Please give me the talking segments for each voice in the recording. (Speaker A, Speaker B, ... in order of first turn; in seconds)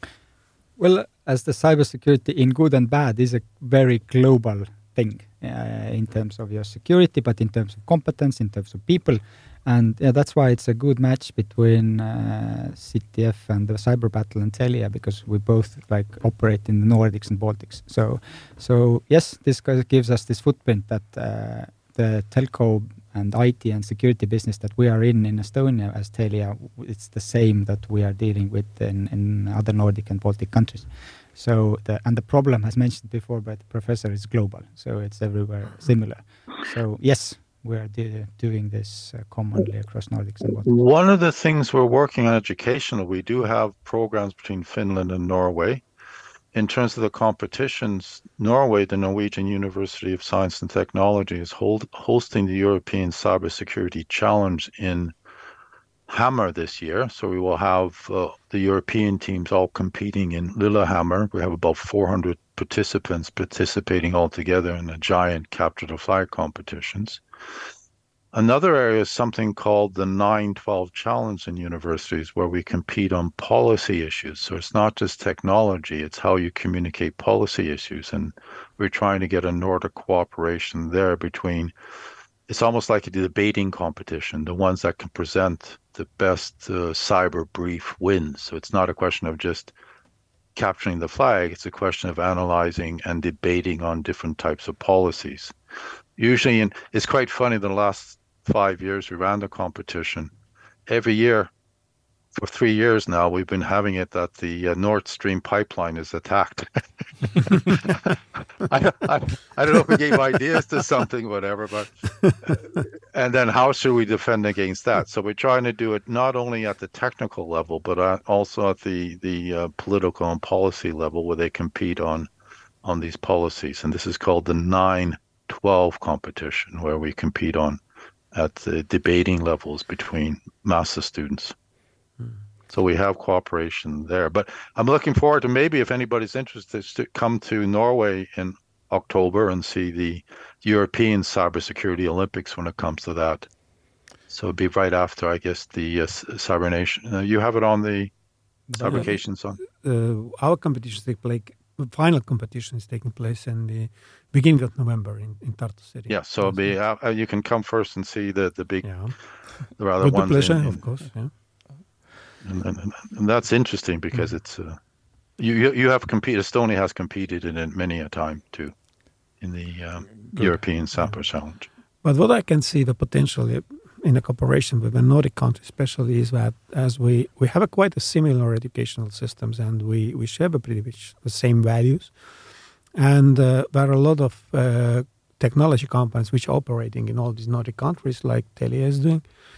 Speaker A: 0.8-40.7
Speaker B: 40.6-45.8, 46.5-55.1, 56.1-67.2, 68.3-81.7, 82.5-89.7, 90.5-95.5, 96.2-100.3, 100.9-101.5, 102.3-106.8, 107.3-122.3, 122.8-127.8, 128.3-131.5, 132.7-143.5, 144.3-148.1, 148.7-149.6, 156.1-159.0, 159.8-160.8, 162.4-164.8, 165.4-168.7, 169.4-171.7
Speaker C: 148.8-149.1, 149.7-156.7, 158.8-159.1, 160.0-161.3, 172.0-182.1, 182.9-189.2